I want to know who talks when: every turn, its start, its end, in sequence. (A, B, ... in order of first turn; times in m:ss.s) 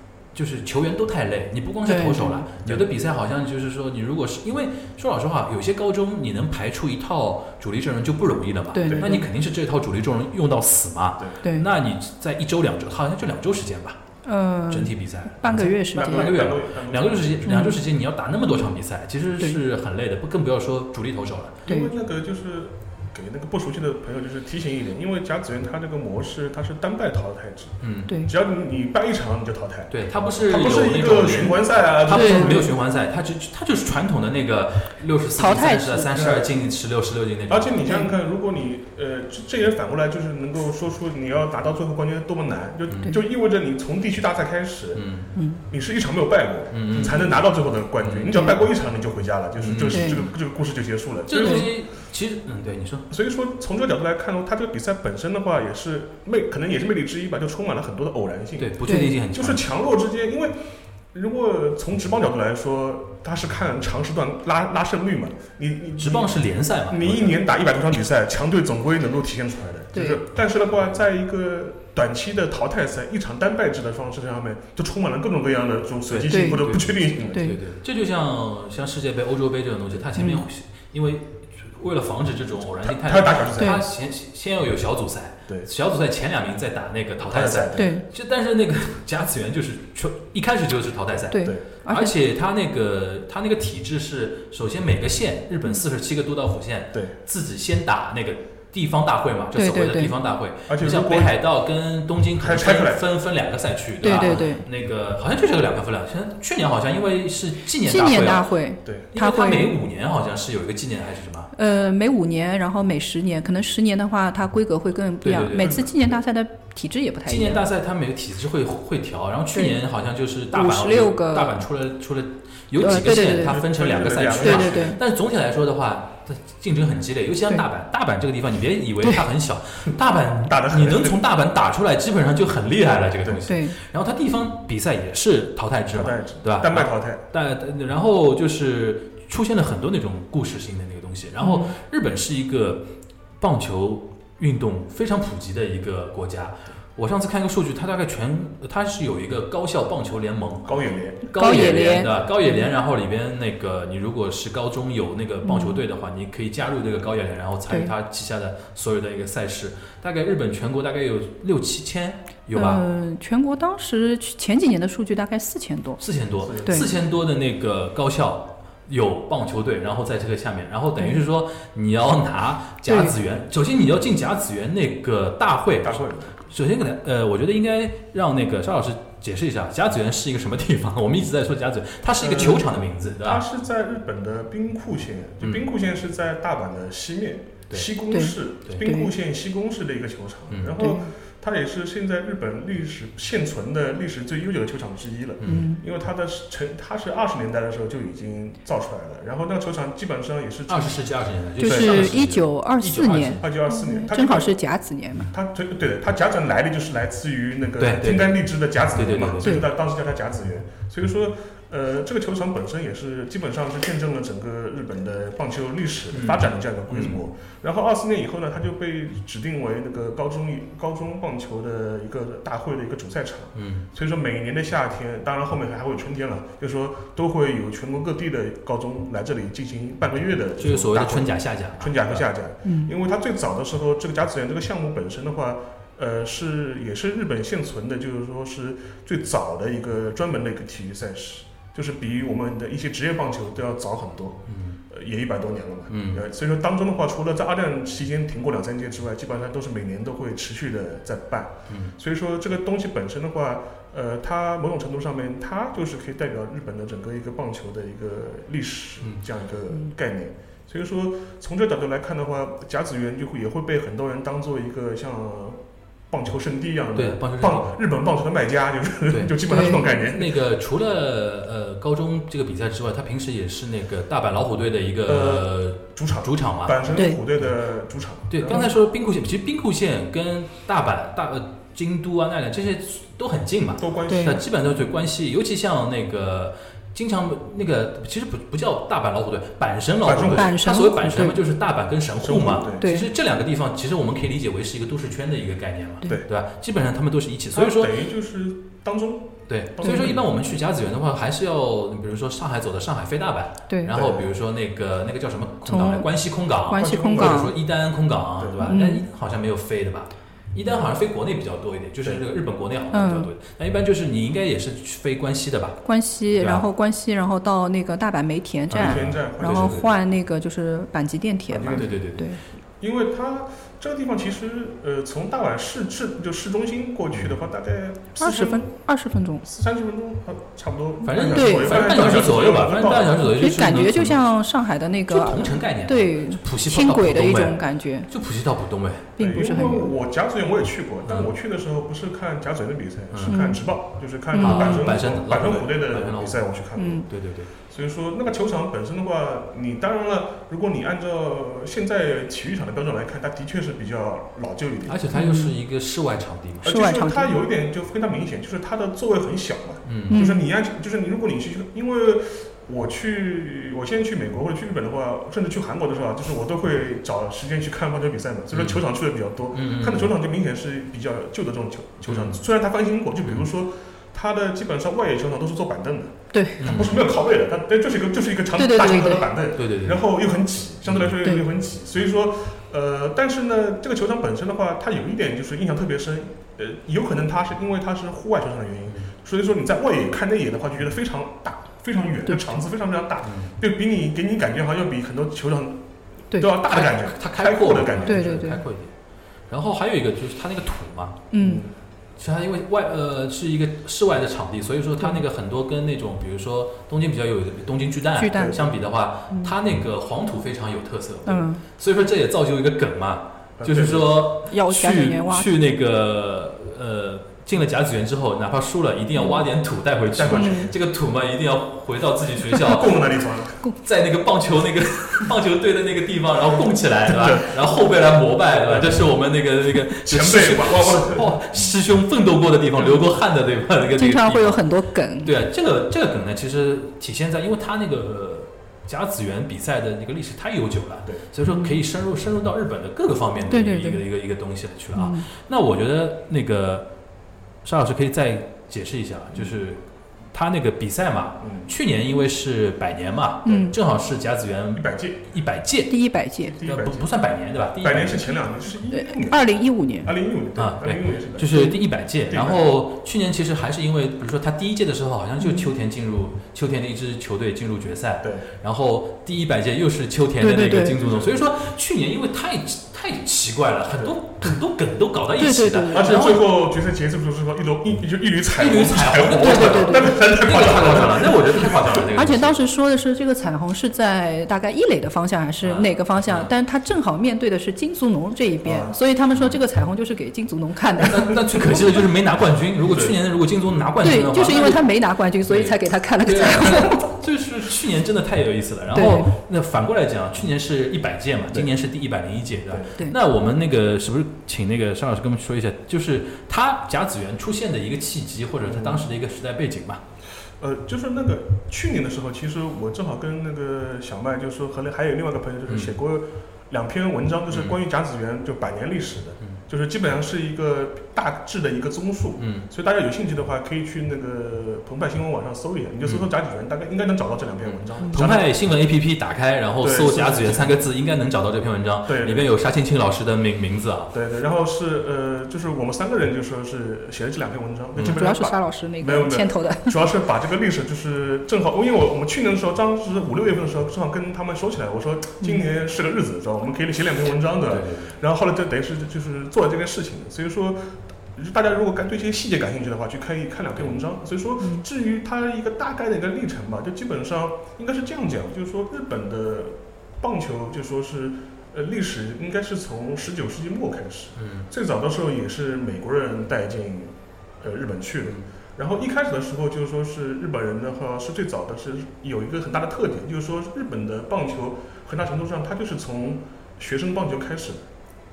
0:00.3-0:14.0 A
0:01.8-0:02.5 B
0:08.7-0:09.3 B
0:08.9-0:09.2 C
0:11.4-0:11.7 B
0:14.2-0:16.3 B
0:14.7-0:21.6 A
0:15.5-0:17.6 C
0:17.4-0:17.8 B
0:21.6-0:32.7 C
0:21.7-0:21.9 B
0:27.8-0:28.1 A
0:29.9-0:37.8 A
0:32.1-0:32.7 B
0:35.4-0:36.2 B
0:36.1-0:36.5 C
0:37.5-0:45.0 C
0:37.8-0:38.1 B
0:44.9-0:45.3 A
0:45.4-0:45.6 B
0:45.7-0:51.7 C
0:46.7-0:47.3 A
0:48.0-0:48.4 A
0:48.3-0:48.6 B
0:49.6-0:50.3 A
0:49.9-0:50.2 B
0:51.3-0:53.1 A
0:51.4-0:51.7 B
0:53.1-1:00.5 C
0:58.6-0:59.6 A
0:58.8-0:59.1 B
1:01.1-1:17.5 C
1:06.0-1:07.4 A
1:09.9-1:10.2 B
1:16.1-1:48.5 A
1:16.3-1:16.6 B
1:17.2-1:17.6 B
1:20.2-1:20.4 B
1:22.8-1:23.8 C
1:27.2-1:27.9 C
1:27.7-1:28.0 B
1:31.3-1:32.1 B
1:39.5-1:40.1 B
1:40.7-1:41.4 C
1:42.4-1:43.0 C
1:44.0-1:44.6 B
1:44.1-1:44.4 C
1:47.8-1:49.7 B
1:49.1-1:51.5 A
1:51.5-1:57.6 B
1:55.2-1:55.8 A
1:55.6-1:56.0 C
1:57.2-2:22.9 A
1:59.5-1:59.8 B
2:00.5-2:01.6 B
2:02.8-2:03.6 B
2:03.2-2:05.0 C
2:04.4-2:05.0 B
2:10.5-2:11.2 C
2:13.4-2:13.8 B
2:15.9-2:17.2 C
2:21.4-2:21.7 B
2:23.4-2:42.8 A
2:30.6-2:31.2 C
2:31.3-2:32.6 B
2:35.4-2:35.8 B
2:42.5-2:46.0 B
2:46.0-3:03.4 A
2:46.4-2:46.9 C
2:52.9-2:53.1 B
2:55.8-2:56.3 C
3:02.2-3:21.0 C
3:08.1-3:09.1 B
3:10.5-3:10.8 A
3:10.8-3:11.1 B
3:15.4-3:15.8 B
3:20.7-3:23.5 A
3:21.6-3:25.3 B
3:21.6-3:22.2 C
3:23.4-3:24.5 C
3:25.3-4:30.4 C
3:27.8-3:28.4 A
3:28.9-3:29.6 A
3:36.1-3:37.2 A
3:43.6-3:43.8 A
3:50.6-3:52.2 A
3:52.6-3:52.9 B
4:04.5-4:04.8 A
4:05.9-4:06.2 A
4:27.0-4:27.7 A
4:29.1-4:36.8 A
4:29.4-4:29.9 B
4:35.1-4:38.6 C
4:36.9-4:37.2 B
4:38.3-4:57.9 A
4:43.8-4:44.5 C
4:44.1-4:44.4 B
4:50.0-4:50.5 C
4:50.2-4:51.4 B
4:52.2-4:52.9 C
4:52.8-4:53.0 B
4:57.5-5:00.4 C
4:59.5-5:15.8 A
4:59.8-5:00.1 B
5:03.7-5:04.0 B
5:03.9-5:04.3 C
5:05.6-5:06.1 B
5:06.6-5:07.5 B
5:06.7-5:07.5 C
5:08.4-5:08.8 C
5:08.6-5:09.0 B
5:12.9-5:13.3 B
5:15.8-5:22.4 B
5:16.3-5:16.6 A
5:18.7-5:19.8 A
5:18.7-5:19.9 C
5:21.5-5:22.0 C
5:21.7-5:22.3 A
5:22.8-5:28.7 C
5:28.2-5:29.4 B
5:29.4-5:33.3 C
5:31.0-5:34.2 A
5:31.1-5:31.9 B
5:33.3-5:38.1 B
5:35.1-5:39.1 A
5:39.2-5:39.9 B
5:39.2-5:47.0 C
5:41.0-5:41.3 A
5:43.1-5:43.4 A
5:43.3-5:43.6 B
5:44.3-5:44.9 B
5:44.4-5:46.4 A
5:46.8-5:47.0 B
5:47.1-5:47.5 A
5:47.7-5:55.0 C
5:54.9-5:56.7 A
5:55.1-5:55.5 B
5:56.6-6:35.8 C
5:56.6-5:57.4 B
5:59.8-6:00.2 A
6:00.1-6:00.4 B
6:08.5-6:08.8 A
6:09.5-6:10.1 A
6:12.0-6:12.4 A
6:16.3-6:16.6 B
6:16.6-6:17.0 A
6:18.5-6:19.3 B
6:19.6-6:20.0 A
6:20.9-6:21.1 A
6:32.3-6:32.6 B
6:33.2-6:33.5 A
6:36.3-6:38.5 C
6:36.7-6:38.9 A
6:38.0-6:38.6 B
6:39.5-6:41.3 A
6:41.3-6:41.6 B
6:41.4-6:41.7 C
6:42.2-7:03.0 A
6:48.2-6:48.6 B
6:48.3-6:48.6 C
6:51.2-6:51.6 B
6:53.6-6:54.2 C
6:54.5-6:55.5 B
6:59.2-6:59.4 B
7:00.1-7:00.7 C
7:00.3-7:00.7 B
7:02.6-7:03.6 C
7:03.8-7:14.7 A
7:07.1-7:07.6 C
7:08.5-7:09.1 C
7:10.0-7:11.4 C
7:13.9-7:15.3 B
7:15.2-7:26.9 A
7:21.4-7:21.8 B
7:23.5-7:24.0 B
7:24.9-7:25.3 B
7:27.6-7:29.8 A
7:30.3-7:36.0 A
7:31.4-7:31.7 C
7:33.4-7:33.7 B
7:34.7-7:35.2 C
7:35.9-7:36.6 B
7:36.4-7:37.1 C
7:36.6-7:38.4 A
7:37.8-7:42.7 C
7:38.9-7:40.1 B
7:40.6-7:56.4 A
7:45.4-7:45.7 B
7:48.2-7:48.5 C
7:50.4-7:51.0 B
7:51.0-7:51.4 C
7:55.4-7:56.3 B
7:55.9-8:02.1 C
7:58.6-8:02.6 A
7:59.4-8:00.2 B
8:02.1-8:11.6 B
8:05.6-8:06.5 A
8:08.6-8:09.0 C
8:11.0-8:14.9 A
8:12.8-8:13.1 C
8:14.0-8:17.1 B
8:15.5-8:30.0 A
8:18.9-8:19.3 B
8:28.6-8:29.0 C
8:30.6-8:48.5 C
8:35.7-8:35.9 A
8:37.5-8:37.8 A
8:42.4-8:42.7 A
8:47.6-8:54.1 A
8:49.8-8:50.8 C
8:52.1-8:52.5 C
8:54.1-9:37.8 C
8:58.0-8:58.2 A
8:58.0-8:59.9 B
9:05.4-9:05.7 B
9:07.6-9:08.1 A
9:24.4-9:24.7 A